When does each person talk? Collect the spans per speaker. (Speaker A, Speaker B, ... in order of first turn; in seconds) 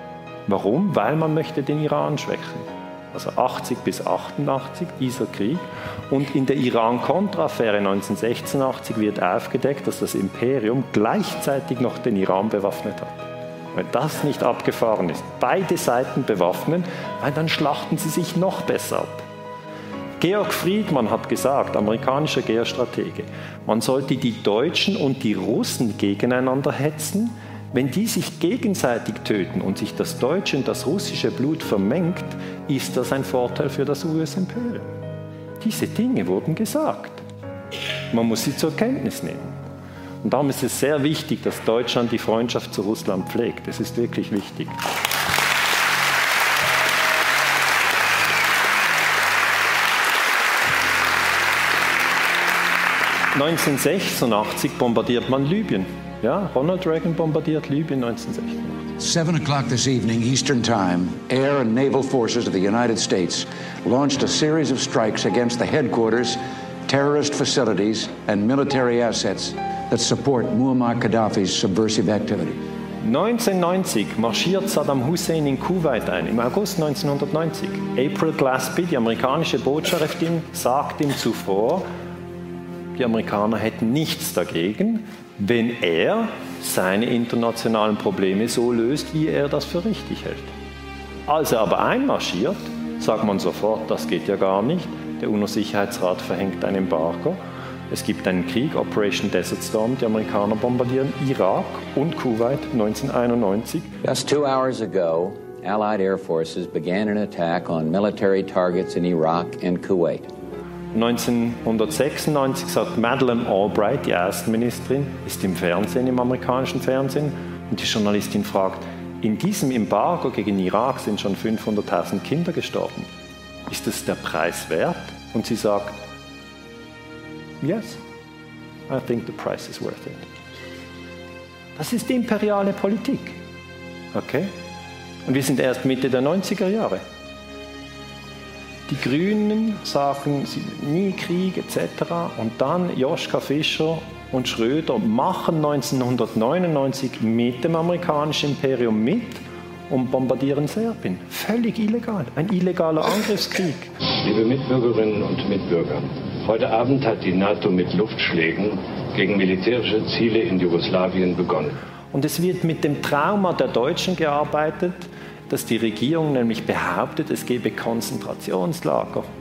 Speaker A: 0.5-13.2, 13.7-19.2, 20.2-34.9, 35.6-37.2, 38.1-39.5, 40.2-44.7, 53.3-58.8, 73.0-81.8, 83.0-90.5, 91.3-97.4, 97.9-103.9, 110.9-123.1, 123.7-126.0, 127.6-128.0, 128.9-130.2, 131.8-133.3, 134.1-134.5, 135.2-137.0, 138.9-153.9, 162.1-169.3
Speaker B: 59.0-72.6
Speaker C: 104.0-110.3
Speaker D: 154.2-161.7